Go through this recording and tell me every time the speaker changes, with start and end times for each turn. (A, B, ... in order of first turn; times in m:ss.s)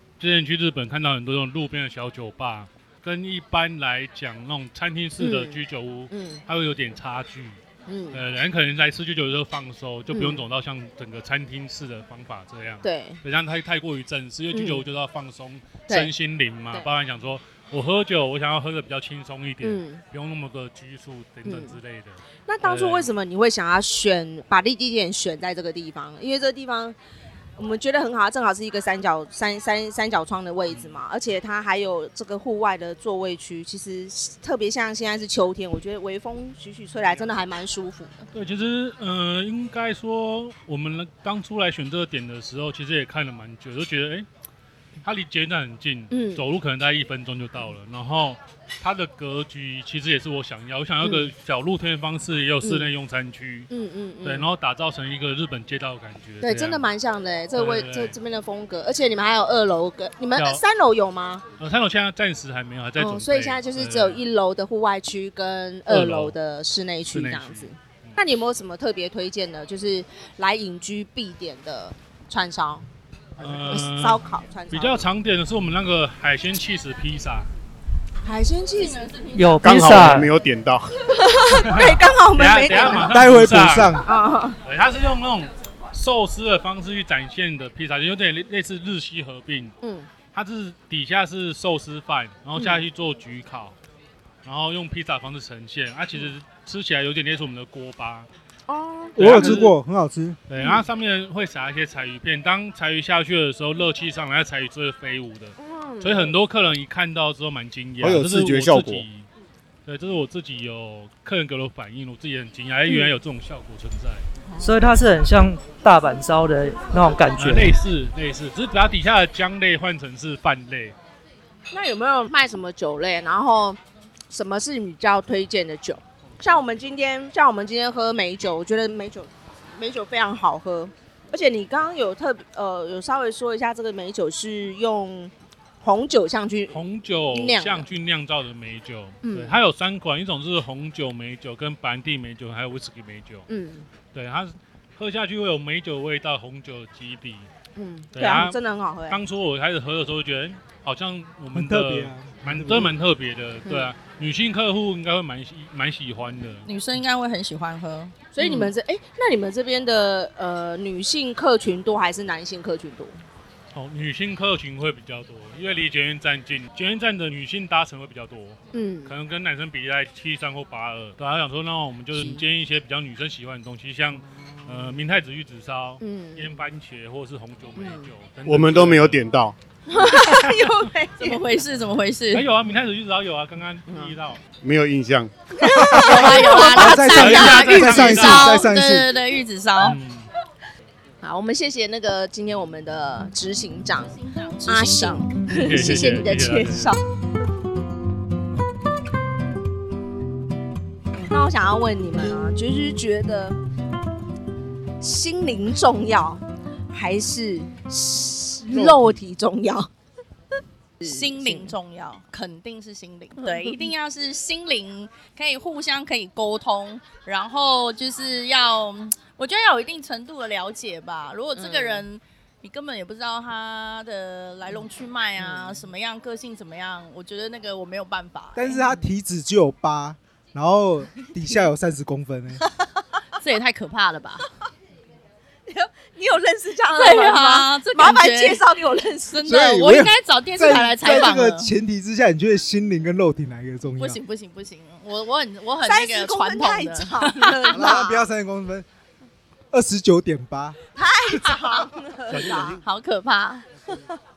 0:00.2-0:07.6 A
0:05.2-0:06.4 B
0:07.9-0:08.2 B
0:08.1-0:23.1 A
0:10.1-0:10.5 B
0:12.8-0:13.2 B
0:14.5-0:14.8 B
0:19.6-0:20.0 B
0:21.4-0:21.8 B
0:22.5-0:27.0 B
0:27.6-0:38.3 B
0:30.7-0:31.0 A
0:38.3-0:44.3 A
0:45.0-0:53.7 A
0:46.1-0:46.4 B
0:51.0-0:51.3 B
0:52.6-0:52.9 B
0:53.7-0:54.5 B
0:54.2-0:56.9 A
0:56.4-1:01.4 B
0:57.6-0:58.2 A
1:00.4-1:00.6 A
1:01.6-1:04.2 A
1:03.0-1:12.9 B
1:05.9-1:06.4 A
1:07.1-1:08.2 A
1:13.4-1:13.8 C
1:13.4-1:17.5 A
1:13.6-1:15.1 B
1:18.2-1:19.0 B
1:18.8-1:19.6 D
1:19.3-1:20.3 E
1:19.6-1:20.9 C
1:21.1-1:23.2 B
1:21.5-1:24.0 A
1:23.0-1:24.1 F
1:24.0-1:24.6 B
1:24.6-1:29.7 A
1:29.8-1:30.1 B
1:30.3-1:33.8 A
1:32.6-1:32.8 B
1:34.4-1:38.3 A
1:38.7-1:39.7 B
1:39.2-1:40.4 F
1:39.2-1:39.7 A
1:40.5-1:49.3 A
1:40.6-1:40.8 B
1:45.6-1:46.4 B
1:48.0-1:49.1 C
1:49.9-1:54.2 A
1:52.9-1:53.1 B
1:54.6-1:57.8 E
1:57.4-2:01.0 A
2:01.7-2:03.8 B
2:04.3-2:17.9 B
2:16.7-2:23.4 A
2:19.2-2:19.6 B
2:23.5-2:23.9 B
2:24.1-2:27.5 A
2:27.8-2:29.2 B
2:28.1-2:28.6 A
2:29.1-2:36.7 A
2:31.5-2:32.9 F
2:33.6-2:33.9 B
2:36.7-2:38.7 D
2:38.3-2:43.2 B
2:43.7-2:59.3 A
2:48.7-2:49.2 B
2:52.2-2:52.4 B
2:54.2-2:55.0 B
2:56.0-2:56.5 B
2:57.8-2:58.1 B
2:58.4-2:59.6 C
2:59.9-3:01.5 B
3:00.2-3:00.5 A
3:01.2-3:02.5 D
3:02.3-3:04.4 A
3:04.6-3:05.3 C
3:05.6-3:07.6 B
3:05.6-3:09.1 F
3:06.0-3:10.0 D
3:06.8-3:08.6 A
3:09.8-3:10.3 A
3:11.2-3:17.0 B
3:14.0-3:15.5 D
3:15.5-3:17.0 A
3:15.7-3:16.1 C
3:21.3-3:23.6 B
3:25.0-3:29.9 B
3:28.7-3:29.2 F
3:31.0-3:31.8 B
3:31.0-3:48.9 D
3:33.4-3:33.9 B
3:41.6-3:42.0 B
3:45.4-3:45.8 B
3:48.6-3:52.6 F
3:53.4-3:54.5 D
3:55.7-3:59.5 B
3:56.9-3:58.6 D
3:59.3-4:01.7 D
3:59.4-4:04.2 F
4:04.0-4:07.8 D
4:05.8-4:08.3 B
4:07.7-4:08.9 F
4:09.7-4:10.8 F
4:11.0-4:12.8 B
4:11.4-4:11.9 D
4:12.3-4:12.8 C
4:12.8-4:13.7 D